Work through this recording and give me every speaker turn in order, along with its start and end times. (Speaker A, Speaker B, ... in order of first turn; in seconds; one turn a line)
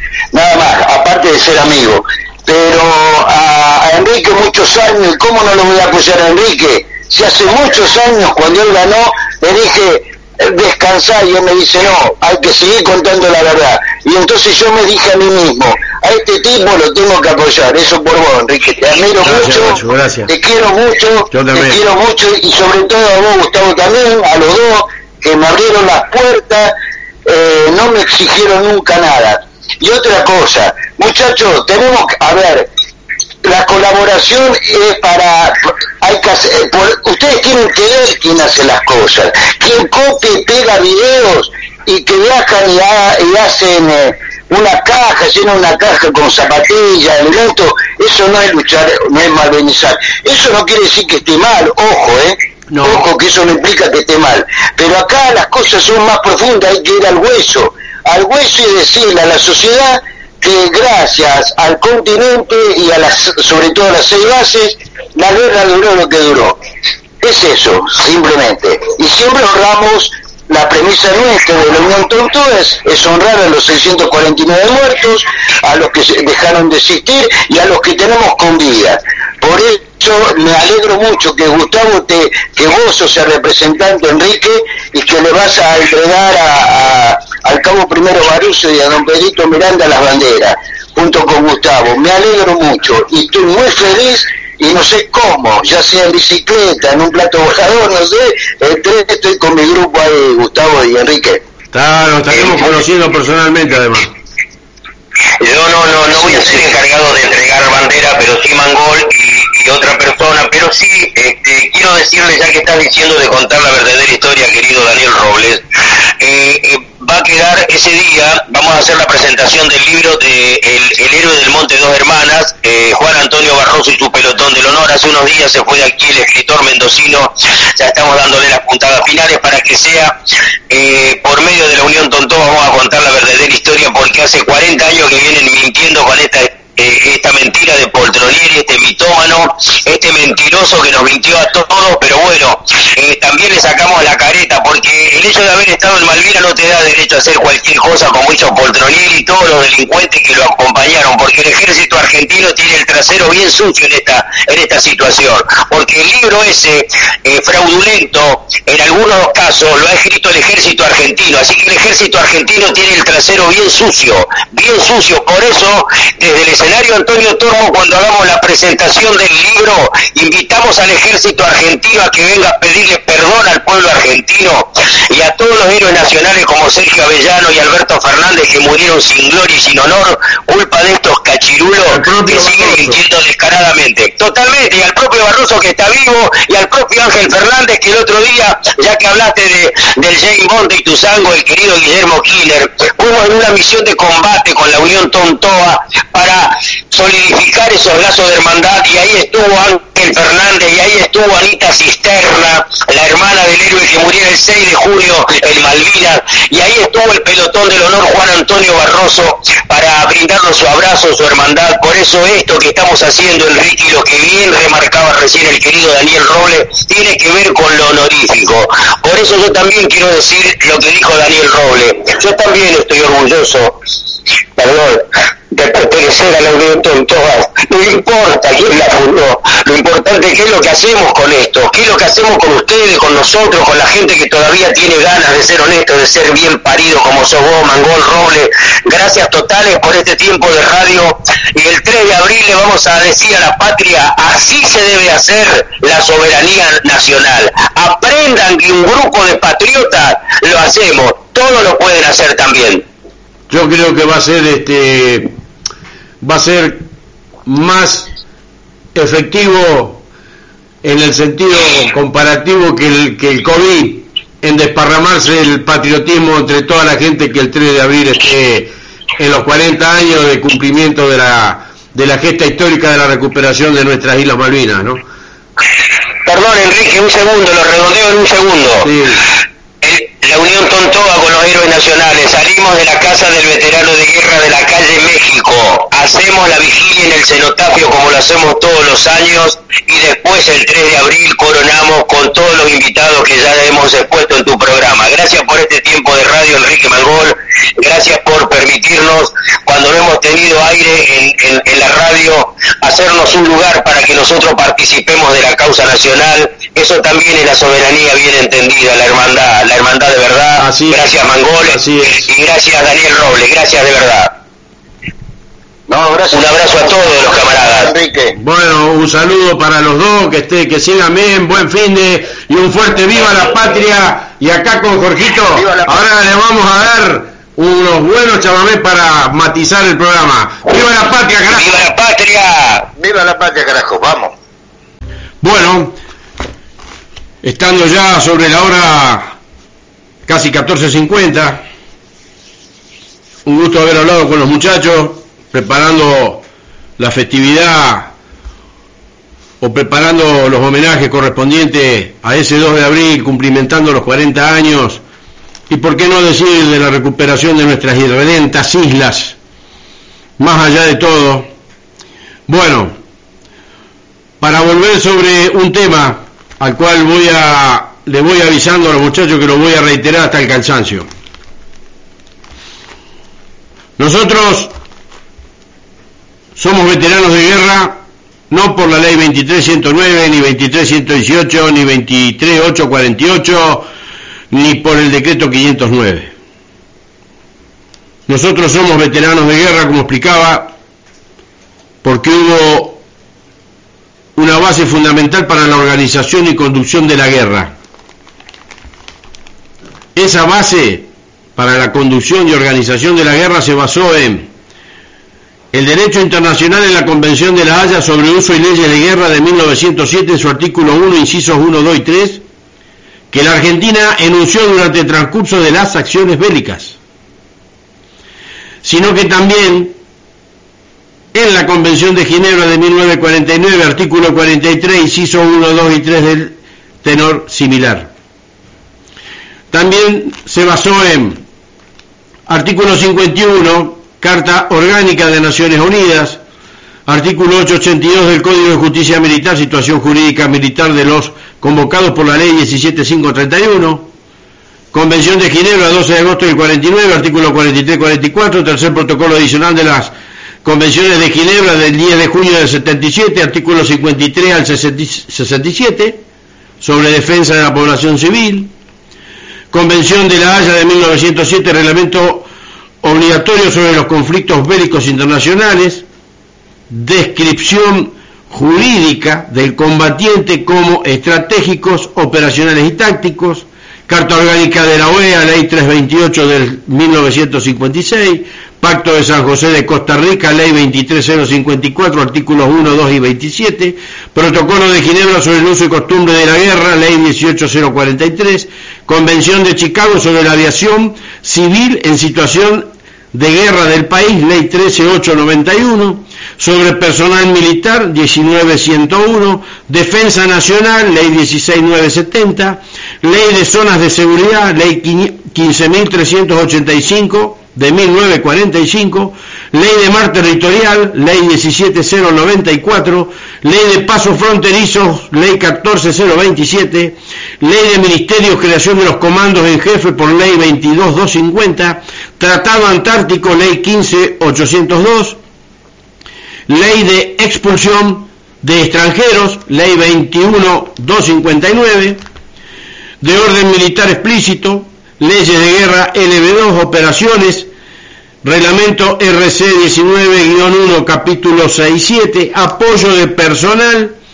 Speaker A: 0.3-26.7
Speaker B: 19.2-20.3
Speaker B: 21.3-21.8
Speaker A: 27.3-32.7
Speaker A: 33.4-66.6
Speaker B: 52.7-53.0
Speaker A: 67.2-101.4
Speaker B: 101.7-104.1
Speaker C: 105.4-115.6
Speaker A: 106.1-106.6
Speaker C: 116.2-130.1
Speaker C: 130.7-223.8
Speaker B: 181.9-183.0
Speaker C: 224.6-252.8
Speaker B: 253.5-255.3
Speaker B: 256.2-256.9
Speaker B: 257.4-258.1
Speaker B: 258.9-260.0
Speaker B: 260.8-275.0
Speaker C: 276.2-278.9
Speaker B: 278.8-279.2
Speaker C: 279.8-314.3
Speaker B: 310.6-311.1
Speaker B: 311.6-312.3
Speaker A: 315.9-318.4
Speaker C: 316.3-317.9
Speaker B: 318.4-331.8
Speaker A: 325.5-326.1
Speaker C: 331.5-332.9
Speaker A: 333.0-334.3
Speaker B: 335.4-336.0
Speaker B: 337.4-339.3
Speaker B: 340.2-341.6
Speaker B: 343.4-346.4
Speaker B: 347.0-348.1
Speaker B: 349.6-355.0
Speaker B: 355.7-359.4
Speaker B: 360.4-361.5
Speaker B: 362.5-362.9
Speaker B: 364.4-371.1
Speaker B: 374.0-374.7
Speaker B: 376.6-378.0
Speaker B: 378.5-383.9
Speaker B: 384.5-386.3
Speaker B: 388.3-390.7
Speaker B: 392.0-393.0
Speaker B: 394.4-397.7
Speaker B: 400.1-404.5
Speaker B: 405.7-412.4
Speaker B: 413.3-417.0
Speaker B: 418.8-419.9
Speaker B: 421.3-428.1
Speaker B: 429.7-431.4
Speaker B: 432.5-436.4
Speaker B: 437.1-444.1
Speaker B: 444.9-450.1
Speaker B: 450.6-456.2
Speaker B: 456.8-458.7
Speaker B: 459.7-462.5
Speaker B: 463.0-466.0
Speaker B: 466.9-525.4
Speaker B: 526.7-532.2
Speaker B: 533.2-537.7
Speaker B: 538.4-544.1